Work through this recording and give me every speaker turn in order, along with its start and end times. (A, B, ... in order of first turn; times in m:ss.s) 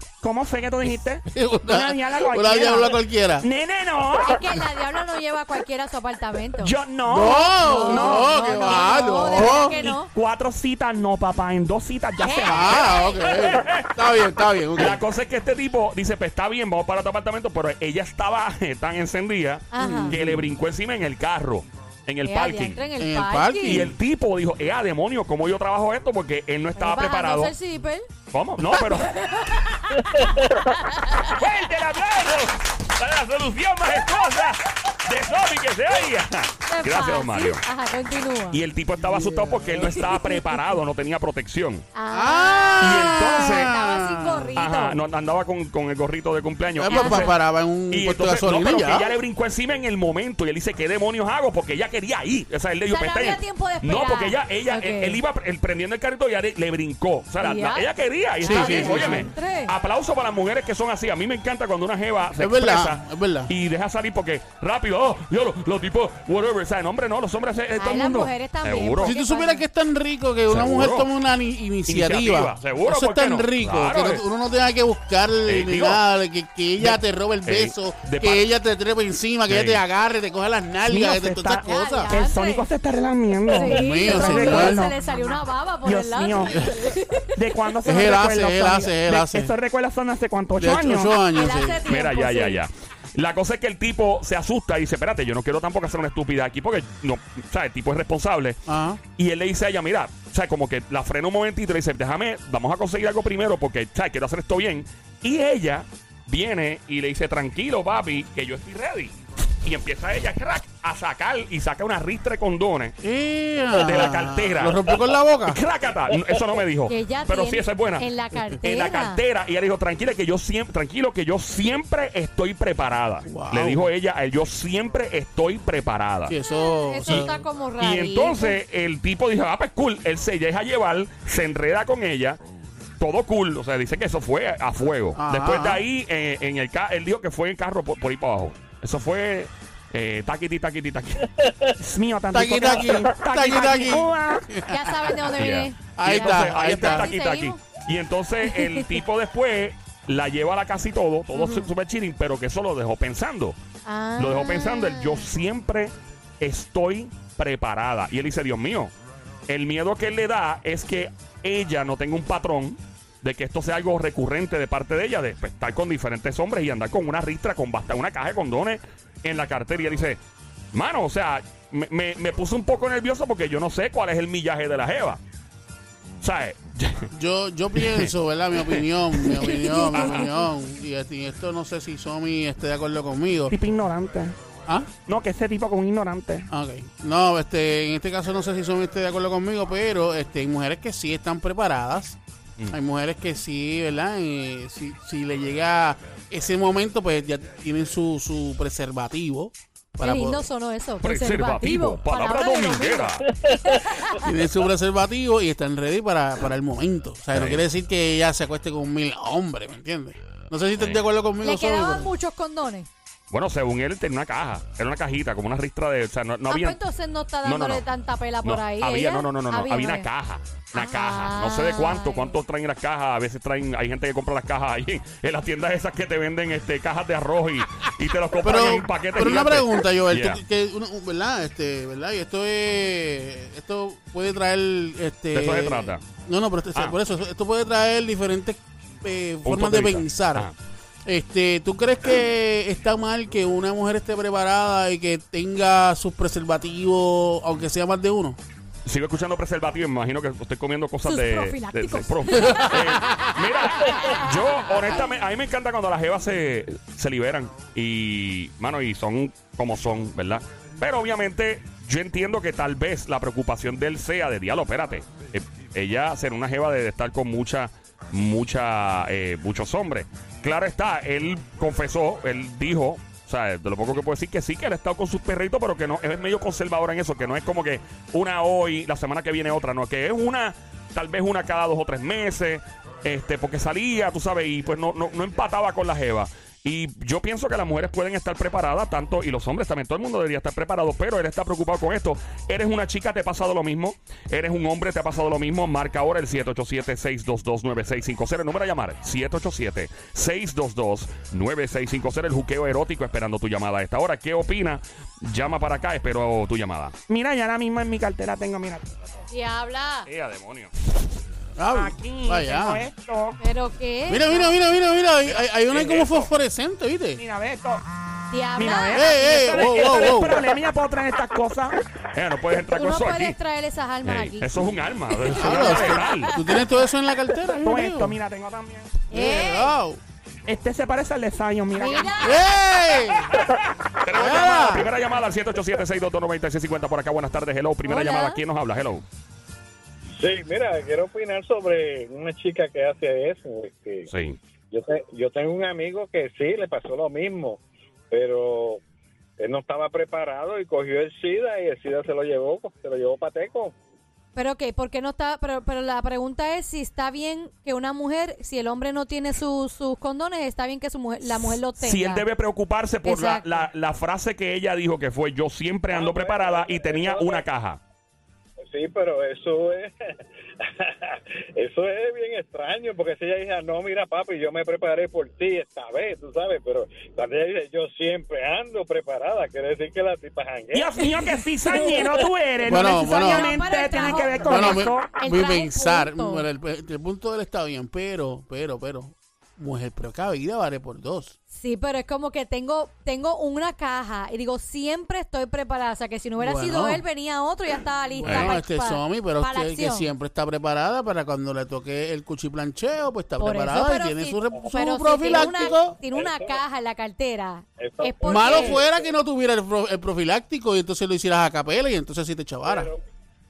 0:00.2-0:04.4 A
0:01.3-0:03.5 B
0:04.2-0:06.7 C
0:06.6-0:12.9 A
0:07.1-0:09.8 B
0:07.6-0:10.1 C
0:12.2-0:13.5 C
0:12.4-0:15.0 B
0:13.4-0:13.9 D
0:14.8-0:22.8 D
0:19.7-0:20.1 C
0:19.8-0:20.5 B
0:22.2-0:23.9 C
0:23.0-0:24.0 B
0:23.6-0:27.5 D
0:26.8-0:28.1 C
0:28.3-0:29.1 D
0:28.7-0:31.3 C
0:31.3-0:37.6 D
0:31.4-0:31.9 A
0:36.7-0:38.6 C
0:38.5-0:41.8 D
0:39.0-0:40.3 B
0:41.9-0:45.0 C
0:42.1-0:44.6 B
0:42.8-0:43.7 D
0:44.6-0:47.4 D
0:46.8-0:49.1 B
0:46.9-0:47.3 C
0:47.9-1:09.1 D
0:52.9-0:55.2 C
0:57.4-0:57.9 C
0:58.4-0:59.3 B
0:58.4-0:59.7 C
1:02.4-1:03.5 B
1:07.8-1:09.6 C
1:09.0-1:22.1 B
1:10.5-1:11.1 D
1:11.9-1:14.2 D
1:15.5-1:16.0 D
1:16.8-1:18.4 D
1:19.5-1:19.8 D
1:20.8-1:25.0 A
1:21.6-1:22.7 C
1:23.5-1:27.4 C
1:23.6-1:24.9 B
1:25.8-1:26.6 A
1:27.3-1:31.1 A
1:27.8-1:29.5 B
1:30.6-1:31.8 B
1:31.3-1:32.6 C
1:31.9-1:38.6 D
1:38.6-1:39.0 B
1:39.2-1:53.0 D
1:53.0-1:55.6 B
1:53.7-1:58.1 D
1:56.9-1:59.2 C
1:58.6-2:06.4 D
2:03.2-2:03.9 B
2:06.3-2:07.4 B
2:06.5-2:08.6 C
2:07.8-2:12.4 D
2:13.0-2:21.4 D
2:15.1-2:15.8 B
2:21.8-2:24.5 A
2:22.3-2:25.2 B
2:24.7-2:27.6 C
2:25.4-2:33.6 D
2:26.0-2:27.1 B
2:28.4-2:28.8 C
2:31.3-2:31.7 C
2:33.8-2:35.3 C
2:34.2-2:38.9 D
2:39.5-2:50.2 D
2:50.7-2:55.2 D
2:56.2-2:57.1 D
2:57.1-3:03.5 B
2:57.7-2:58.1 D
2:59.3-3:00.4 C
2:59.9-3:00.3 D
3:03.5-3:04.3 A
3:05.0-3:06.5 A
3:06.5-3:12.2 B
3:12.7-3:20.5 B
3:20.0-3:24.3 C
3:21.0-3:23.3 D
3:24.2-3:32.1 B
3:27.3-3:27.6 D
3:31.4-3:32.9 C
3:33.3-3:36.8 D
3:36.5-3:40.0 C
3:37.4-3:37.8 D
3:38.4-3:50.4 D
3:40.7-3:42.4 C
3:48.4-4:00.5 B
3:55.3-3:56.0 D
3:59.4-4:00.5 D
4:01.0-4:08.4 B
4:08.8-5:07.0 D
4:11.0-4:15.1 C
5:07.1-5:08.8 A
5:09.3-5:10.1 C
5:10.0-5:10.7 D
5:11.6-5:12.8 B
5:11.7-5:13.4 A
5:13.4-5:14.5 C
5:14.1-5:17.2 B
5:15.3-5:16.3 D
5:17.2-5:17.8 A
5:18.3-5:19.6 C
5:18.6-5:21.8 A
5:18.9-5:20.4 B
5:22.1-5:23.4 D
5:22.7-5:26.6 C
5:24.0-5:26.3 D
5:25.3-5:28.2 B
5:27.5-5:29.0 A
5:29.1-5:29.7 C
5:29.1-5:30.0 B
5:30.4-5:32.3 A
5:31.8-5:32.4 C
5:32.2-5:33.3 B
5:33.3-5:39.0 D
5:34.1-5:34.9 B
5:37.8-5:38.4 C
5:40.2-5:44.1 E
5:44.1-5:44.4 D
5:44.7-5:48.8 E
5:49.4-5:53.7 E
5:54.3-6:02.2 C
6:01.3-6:07.8 D
6:03.0-6:03.7 C
6:05.9-6:07.4 E
6:08.6-6:09.9 E
6:10.6-6:21.8 E
6:20.7-6:25.2 A
6:21.8-6:22.1 C
6:22.6-6:23.7 B
6:22.7-6:26.4 C
6:24.4-6:31.3 B
6:31.5-6:40.1 C
6:36.4-6:37.0 B
6:38.2-6:46.0 B
6:38.2-6:38.5 D
6:43.4-6:48.8 C
6:45.3-6:46.6 E
6:47.8-6:49.1 E
6:48.2-6:52.9 B
6:52.6-6:53.0 E